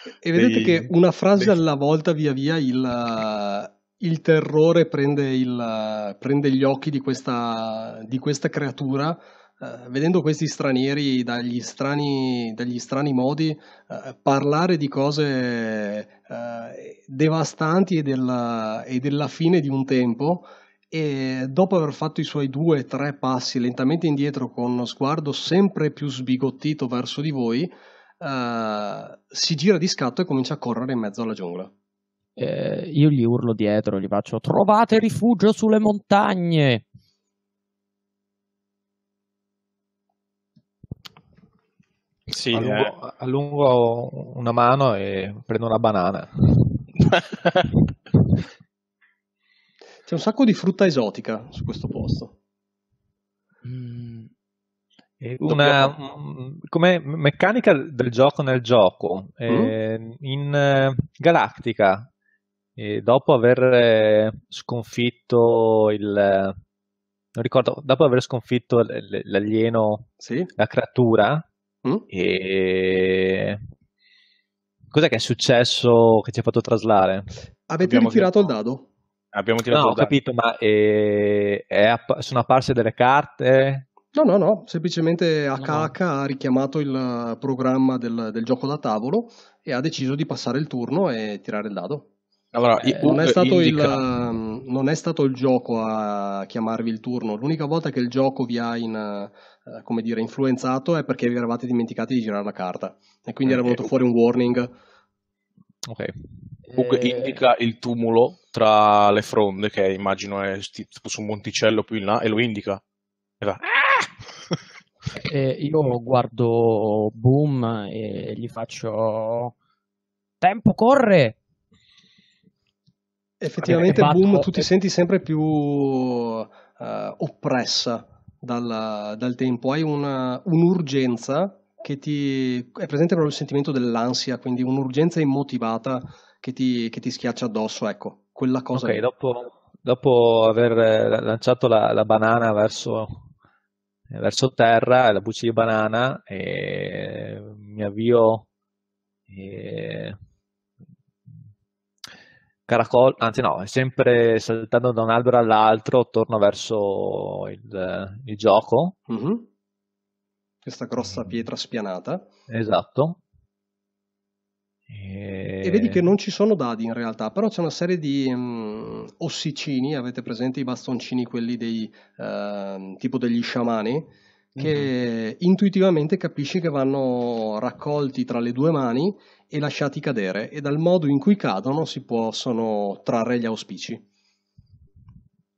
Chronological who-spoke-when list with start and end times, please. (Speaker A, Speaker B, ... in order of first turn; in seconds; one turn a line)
Speaker A: 0.2-31.7
Speaker B: 0.3-1.5
Speaker C: 32.4-36.9
Speaker B: 42.3-42.9
Speaker D: 42.5-46.9
Speaker B: 47.3-47.6
Speaker A: 50.1-52.4
Speaker C: 53.6-54.3
Speaker D: 55.2-62.1
Speaker B: 55.4-55.9
Speaker A: 59.5-59.7
Speaker D: 62.8-66.6
Speaker D: 67.3-71.5
Speaker A: 70.2-70.5
Speaker D: 72.1-73.6
Speaker D: 74.9-77.3
Speaker A: 77.7-78.9
Speaker B: 77.8-78.5
Speaker B: 79.3-80.1
Speaker D: 79.7-83.9
Speaker A: 84.1-92.1
Speaker B: 92.5-94.0
Speaker A: 93.0-104.8
Speaker D: 105.8-106.2
Speaker C: 106.7-107.4
Speaker B: 106.8-112.8
Speaker B: 113.4-114.5
Speaker C: 115.2-119.5
Speaker C: 120.4-121.4
Speaker A: 123.4-139.0
Speaker C: 123.6-124.7
Speaker D: 138.8-143.3
Speaker D: 144.1-148.5
Speaker D: 149.3-150.2
Speaker D: 152.7-159.0
Speaker A: 159.1-159.5
Speaker A: 160.7-162.3
Speaker D: 162.5-163.2
Speaker D: 164.9-166.0
Speaker A: 165.6-184.0